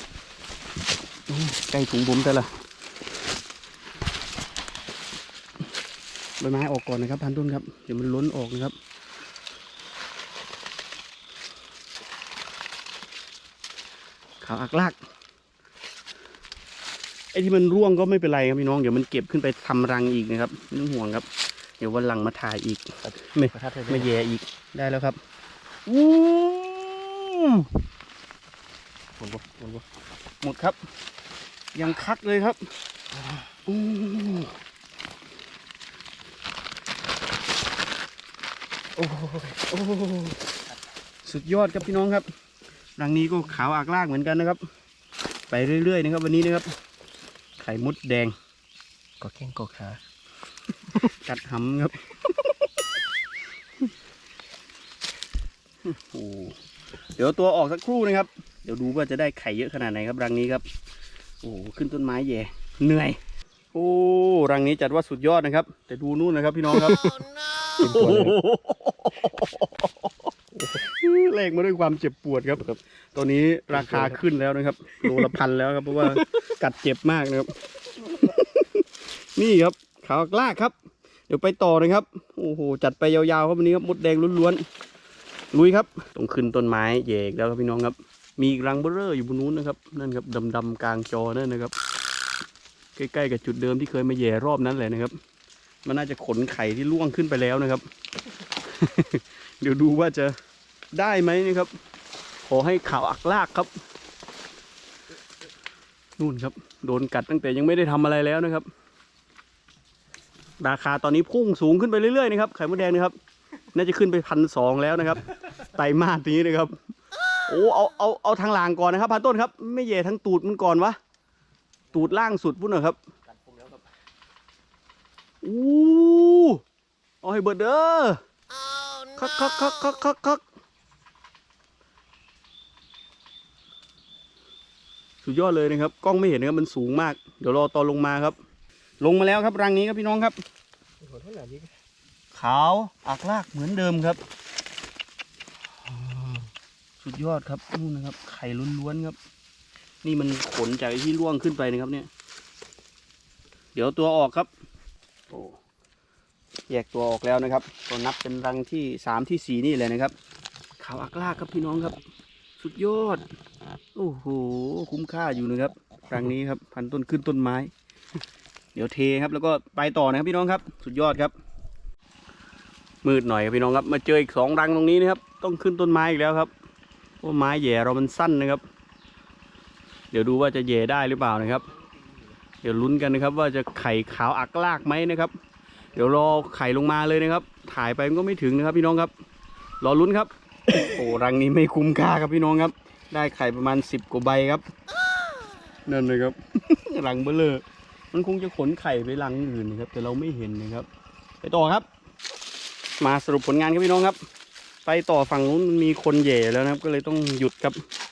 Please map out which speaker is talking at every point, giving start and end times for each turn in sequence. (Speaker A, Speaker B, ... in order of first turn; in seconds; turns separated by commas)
Speaker A: 1.3-2.5, Speaker A: 6.4-8.7, Speaker A: 14.4-15.0, Speaker A: 17.3-21.2, Speaker A: 21.8-25.2, Speaker B: 23.1-24.1, Speaker A: 25.9-27.8, Speaker B: 29.2-29.8, Speaker A: 30.4-30.8, Speaker A: 31.8-32.6, Speaker A: 33.7-34.5, Speaker B: 39.0-39.6, Speaker A: 39.7-40.4, Speaker A: 41.2-42.3, Speaker A: 43.0-44.6, Speaker A: 45.5-46.7, Speaker A: 47.6-48.3, Speaker B: 49.2-50.0, Speaker A: 51.1-52.2, Speaker A: 55.9-56.6, Speaker A: 57.2-60.6, Speaker A: 61.4-63.2, Speaker A: 63.7-67.1, Speaker B: 66.9-67.3, Speaker A: 67.8-70.1, Speaker B: 67.8-68.4, Speaker A: 70.7-80.7, Speaker B: 73.7-74.2, Speaker B: 76.2-76.4, Speaker A: 81.3-84.6, Speaker A: 85.5-91.7, Speaker A: 93.0-95.2, Speaker A: 95.8-97.8, Speaker A: 98.6-100.3, Speaker A: 100.9-101.7, Speaker A: 102.5-103.7, Speaker A: 106.2-108.7, Speaker A: 110.6-113.2, Speaker A: 113.7-116.8, Speaker A: 117.5-121.0, Speaker A: 121.9-123.0, Speaker B: 123.3-123.8, Speaker A: 125.4-126.6, Speaker A: 127.2-128.2, Speaker A: 129.2-130.4, Speaker A: 135.2-138.4, Speaker A: 139.0-140.4, Speaker B: 141.0-141.7, Speaker A: 142.3-144.2, Speaker B: 146.0-146.5, Speaker A: 147.0-149.2, Speaker A: 150.0-152.1, Speaker A: 153.8-154.5, Speaker A: 155.3-155.6, Speaker A: 156.7-160.1, Speaker A: 160.8-162.0, Speaker A: 162.6-163.2, Speaker A: 163.9-167.7, Speaker A: 168.8-171.3, Speaker A: 173.0-176.5, Speaker A: 177.2-178.6, Speaker A: 180.1-181.7, Speaker B: 181.6-182.2, Speaker A: 182.6-185.3, Speaker A: 185.9-189.1, Speaker A: 189.8-194.7, Speaker A: 195.9-200.9, Speaker A: 201.4-201.9, Speaker A: 203.0-204.2, Speaker A: 204.9-207.8